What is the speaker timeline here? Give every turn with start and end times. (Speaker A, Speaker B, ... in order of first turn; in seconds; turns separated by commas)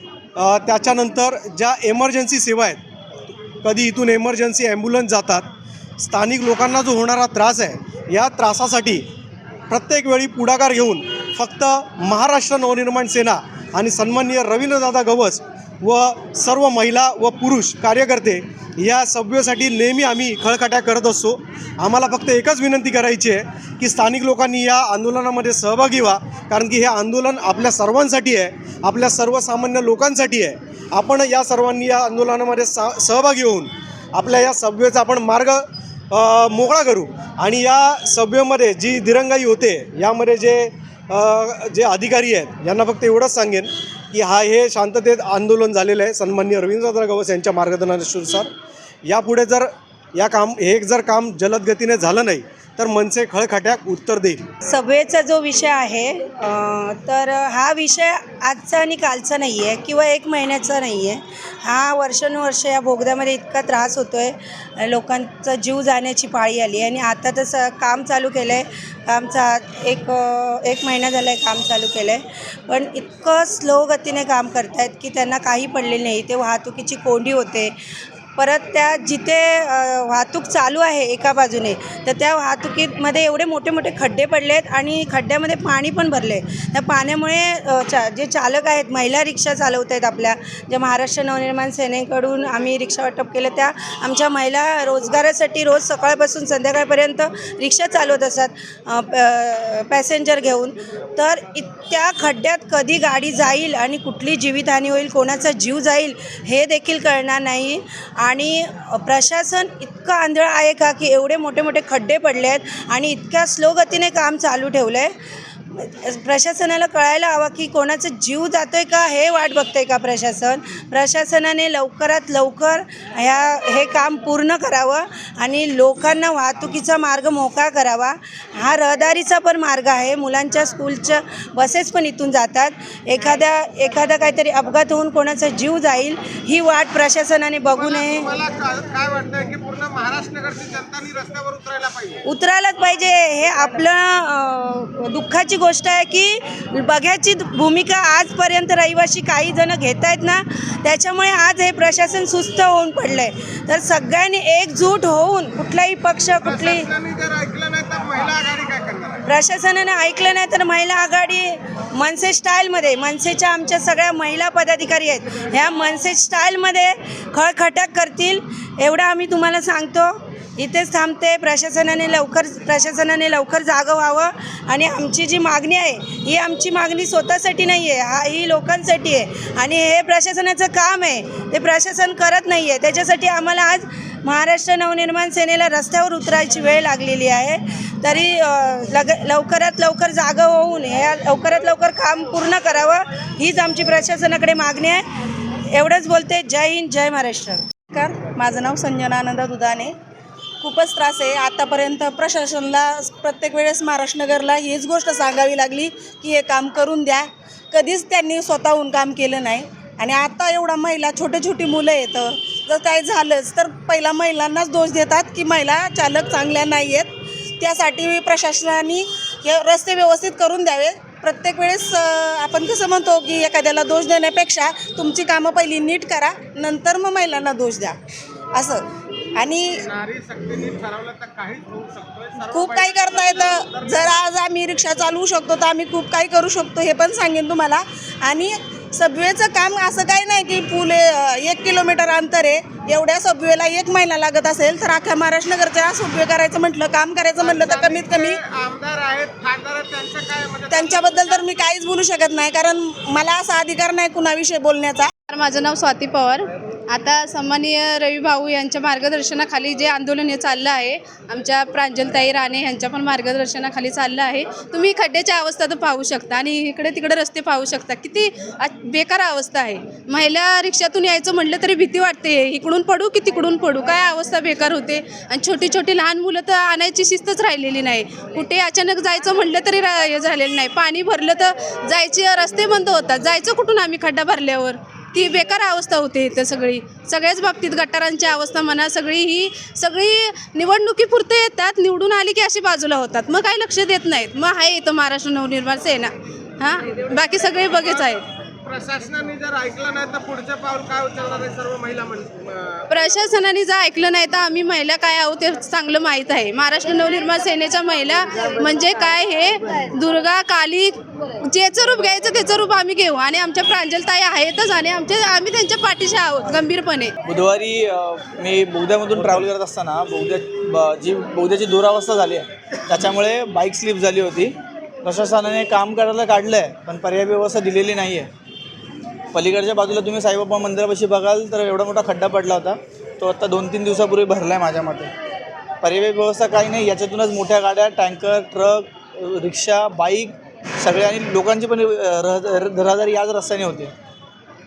Speaker A: 0.3-2.8, Speaker A: 3.6-5.5, Speaker A: 6.0-9.0, Speaker A: 9.7-48.5, Speaker A: 49.0-54.4, Speaker B: 54.6-77.7, Speaker B: 78.4-115.1, Speaker B: 115.7-138.4, Speaker C: 137.8-142.2, Speaker B: 142.3-156.9, Speaker C: 156.4-159.2, Speaker B: 159.2-195.1, Speaker B: 195.7-197.6, Speaker D: 197.9-199.9, Speaker D: 200.6-228.0, Speaker D: 228.5-228.8, Speaker D: 229.3-229.8, Speaker C: 229.8-234.3, Speaker D: 232.5-248.3, Speaker C: 247.4-251.6, Speaker D: 250.7-255.1, Speaker E: 255.3-298.2, Speaker C: 296.8-298.1, Speaker C: 298.6-303.2, Speaker E: 302.9-317.1, Speaker C: 308.4-309.9, Speaker F: 317.2-328.3, Speaker F: 329.3-335.1, Speaker F: 335.8-343.9